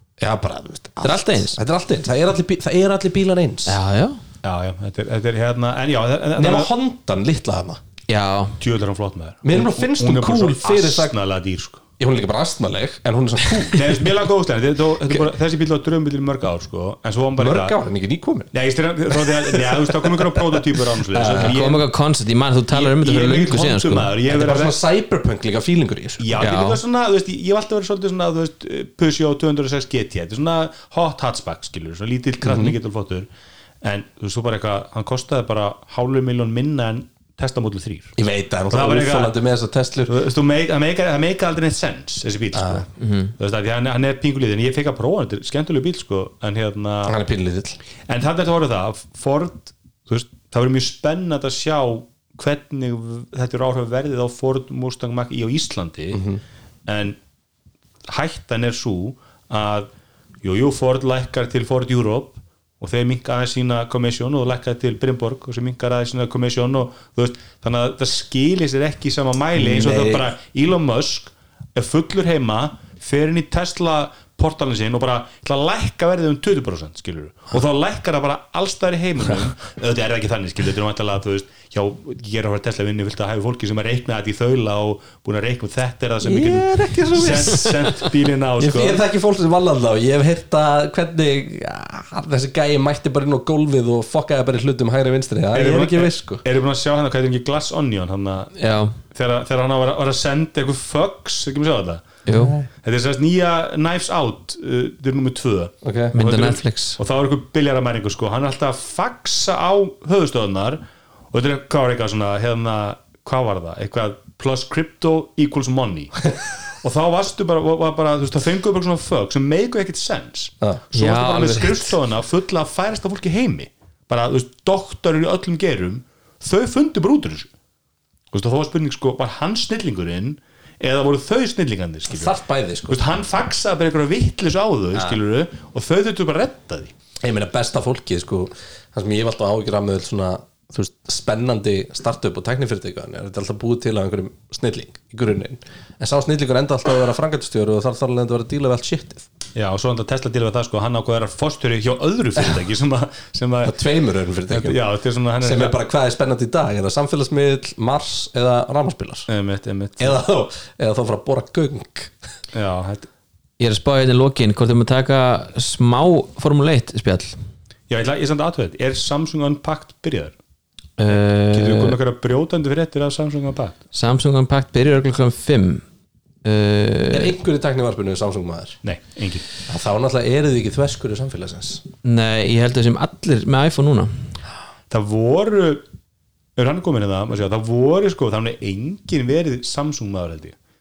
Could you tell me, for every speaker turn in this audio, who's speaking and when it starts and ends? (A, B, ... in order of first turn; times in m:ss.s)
0:00.2-0:03.8 A
0:01.0-0:01.6 B
0:03.7-0:04.2 B
0:04.4-0:06.7 C
0:06.4-0:07.8 A
0:08.1-0:08.6 B
0:08.6-0:11.8 C
0:09.4-0:11.1 A
0:12.0-0:14.1 A
0:13.6-0:17.8 C
0:17.4-0:18.5 A
0:18.5-0:21.9 C
0:19.1-0:21.6 A
0:21.4-0:24.1 B
0:22.7-0:24.8 C
0:24.3-0:26.4 A
0:26.2-0:33.3 C
0:26.4-0:26.8 B
0:32.4-0:32.8 A
0:33.8-0:38.2 C
0:38.2-0:40.1 A
0:38.7-0:39.4 C
0:40.1-0:47.2 C
0:42.5-0:42.9 A
0:43.0-0:43.3 B
0:47.0-0:47.8 A
0:48.1-0:56.2 C
0:56.1-0:56.4 A
0:56.9-0:57.2 C
0:58.1-0:59.9 C
1:00.4-1:29.0 C
1:09.6-1:10.3 A
1:26.2-1:36.4 A
1:35.5-1:38.6 C
1:38.6-1:39.0 B
1:39.1-1:42.0 C
1:42.3-1:42.6 B
1:42.3-1:42.7 A
1:42.8-1:50.8 C
1:45.8-1:46.1 A
1:46.1-1:47.0 B
1:51.3-1:56.3 C
1:56.8-2:07.5 C
2:00.9-2:02.0 B
2:08.3-2:12.4 C
2:12.1-2:13.1 A
2:12.9-2:16.9 C
2:17.2-2:29.3 A
2:29.6-2:33.8 C
2:33.6-2:34.8 A
2:34.5-2:35.8 C
2:35.4-2:39.3 A
2:39.3-2:40.2 C
2:40.0-2:42.3 A
2:42.5-2:43.1 C
2:43.6-2:47.4 B
2:47.9-2:50.4 C
2:51.0-2:52.0 B
2:51.1-2:53.8 C
2:53.9-2:55.8 B
2:56.4-2:57.3 B
2:57.1-2:58.8 A
2:58.8-2:59.4 C
2:59.7-3:01.8 A
3:02.0-3:04.3 B
3:04.9-3:05.8 C
3:06.6-3:10.6 C